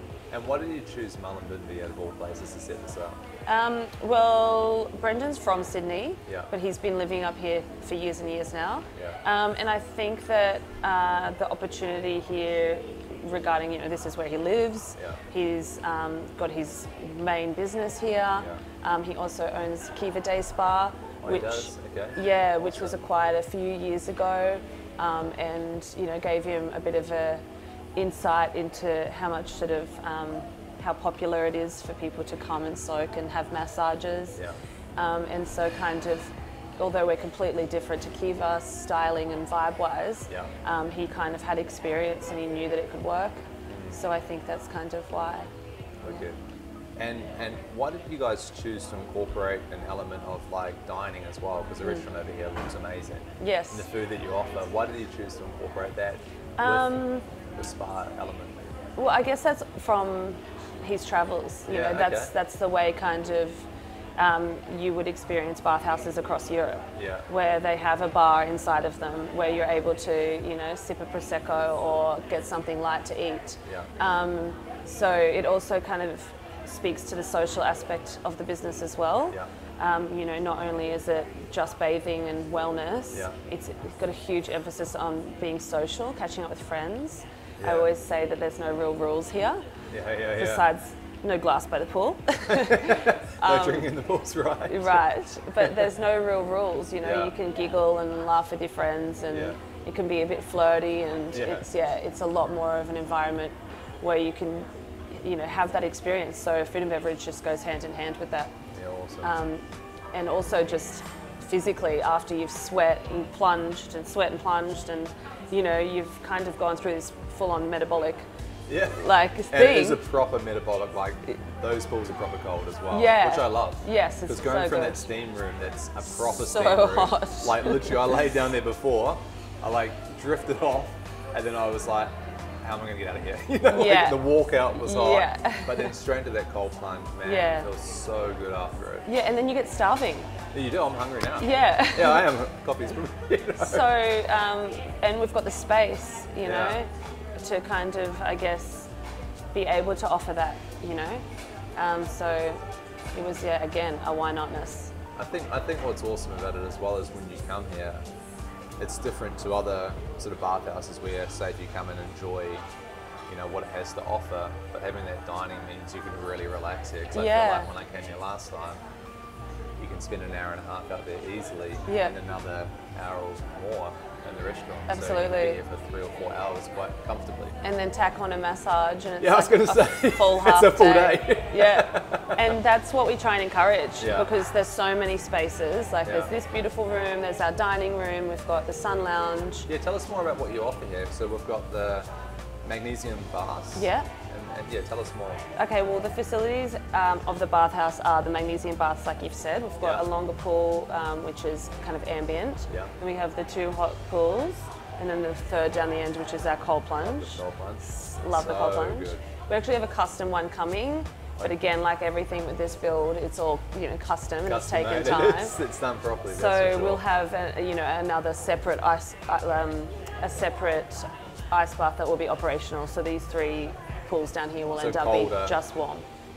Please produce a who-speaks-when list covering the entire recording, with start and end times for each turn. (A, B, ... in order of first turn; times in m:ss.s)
0:00.3-0:03.2 A
0:03.5-0:27.4 B
0:08.9-0:09.2 A
0:21.2-0:22.9 A
0:28.0-0:34.4 B
0:35.0-0:45.5 B
0:43.7-0:44.0 A
0:46.0-0:46.4 A
0:47.0-0:57.0 A
0:53.4-0:53.9 B
0:56.6-0:57.2 B
0:57.6-0:58.6 A
0:59.0-1:29.6 B
1:01.7-1:02.3 A
1:06.9-1:07.3 A
1:13.6-1:13.9 A
1:27.6-1:27.9 A
1:29.9-1:30.7 A
1:30.3-1:33.9 B
1:32.5-1:35.9 A
1:34.6-1:48.5 B
1:37.0-1:37.3 A
1:39.3-1:39.6 A
1:41.3-1:41.7 A
1:48.7-1:49.4 A
1:49.2-1:58.2 B
1:58.7-2:19.1 A
1:59.0-2:00.0 B
2:02.9-2:05.1 B
2:06.1-2:08.2 B
2:13.6-2:15.9 B
2:17.2-2:17.7 B
2:19.1-2:20.3 B
2:20.5-2:23.9 A
2:21.4-2:22.3 B
2:23.6-2:28.9 B
2:26.4-2:26.8 A
2:29.5-2:31.2 B
2:31.8-2:32.6 B
2:33.1-2:34.9 B
2:35.2-2:38.0 A
2:38.8-2:42.6 A
2:43.3-2:48.8 A
2:47.1-2:47.7 B
2:49.8-2:57.6 A
2:51.9-2:52.2 B
2:54.9-2:55.6 B
2:57.6-3:09.7 B
2:59.2-3:02.6 A
3:04.0-3:04.3 A
3:06.0-3:06.3 A
3:09.7-3:12.1 A
3:12.6-3:15.4 A
3:13.7-3:14.1 B
3:15.6-3:35.6 B
3:27.0-3:29.2 A
3:34.4-3:37.0 A
3:36.3-3:46.0 B
3:44.7-3:45.6 A